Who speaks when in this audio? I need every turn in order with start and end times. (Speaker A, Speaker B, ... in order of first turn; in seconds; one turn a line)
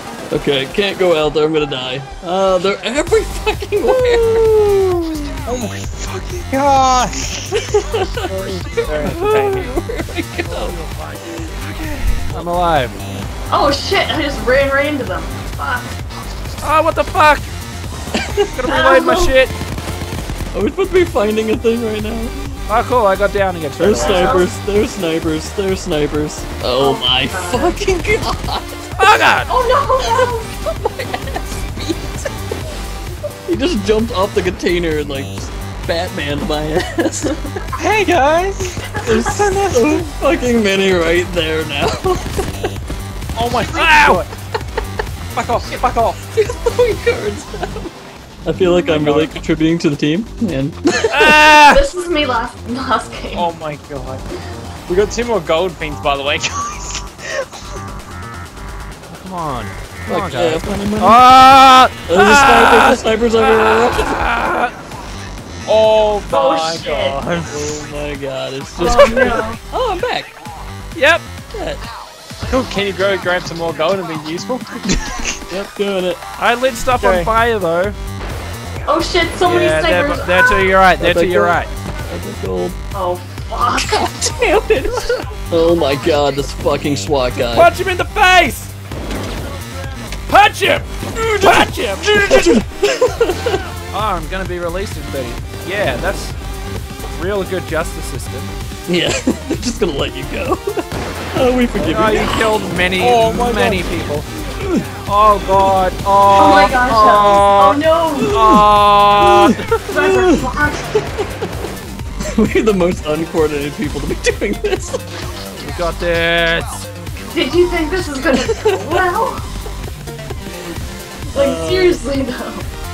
Speaker A: 0.3-4.5
Speaker B: 5.4-7.7
Speaker B: 8.2-9.7
Speaker A: 8.8-10.8
Speaker C: 9.1-9.4
Speaker C: 10.6-12.9
Speaker D: 13.5-15.9
Speaker C: 16.6-17.5
Speaker A: 18.2-18.5
Speaker C: 18.5-19.5
Speaker D: 18.7-19.3
Speaker A: 20.5-22.5
Speaker C: 22.7-24.4
Speaker A: 23.8-28.9
Speaker D: 23.9-24.5
Speaker D: 26.8-27.8
Speaker C: 29.0-29.5
Speaker D: 29.5-30.5
Speaker A: 30.0-32.3
Speaker A: 33.5-37.4
Speaker B: 37.8-40.1
Speaker A: 39.0-42.5
Speaker B: 43.4-44.3
Speaker C: 43.7-44.2
Speaker B: 45.3-46.2
Speaker A: 46.3-47.9
Speaker A: 48.4-51.6
Speaker B: 48.7-49.4
Speaker C: 51.1-51.8
Speaker D: 51.7-53.5
Speaker B: 53.3-54.2
Speaker B: 54.9-57.8
Speaker C: 59.1-64.7
Speaker A: 60.1-61.2
Speaker A: 62.1-64.2
Speaker B: 65.7-67.6
Speaker D: 66.3-67.2
Speaker A: 67.5-70.3
Speaker D: 68.8-69.6
Speaker C: 70.9-71.2
Speaker A: 71.5-71.8
Speaker B: 72.5-75.4
Speaker A: 75.5-76.2
Speaker C: 76.4-78.0
Speaker B: 77.0-77.3
Speaker D: 78.8-80.8
Speaker C: 79.4-81.7
Speaker A: 81.0-82.8
Speaker D: 82.9-84.1
Speaker A: 83.8-87.7
Speaker C: 87.5-88.7
Speaker C: 90.3-92.5
Speaker A: 91.1-93.6
Speaker C: 93.9-96.4
Speaker C: 97.1-98.5
Speaker A: 98.9-102.6
Speaker C: 101.8-104.3
Speaker B: 103.0-103.9
Speaker C: 105.0-109.8
Speaker D: 106.3-108.4
Speaker A: 108.3-109.5
Speaker D: 109.9-110.8
Speaker A: 110.1-110.5
Speaker A: 112.3-115.0
Speaker C: 115.5-116.9
Speaker D: 117.2-119.5
Speaker A: 118.3-119.0
Speaker D: 121.3-122.7
Speaker A: 121.3-122.0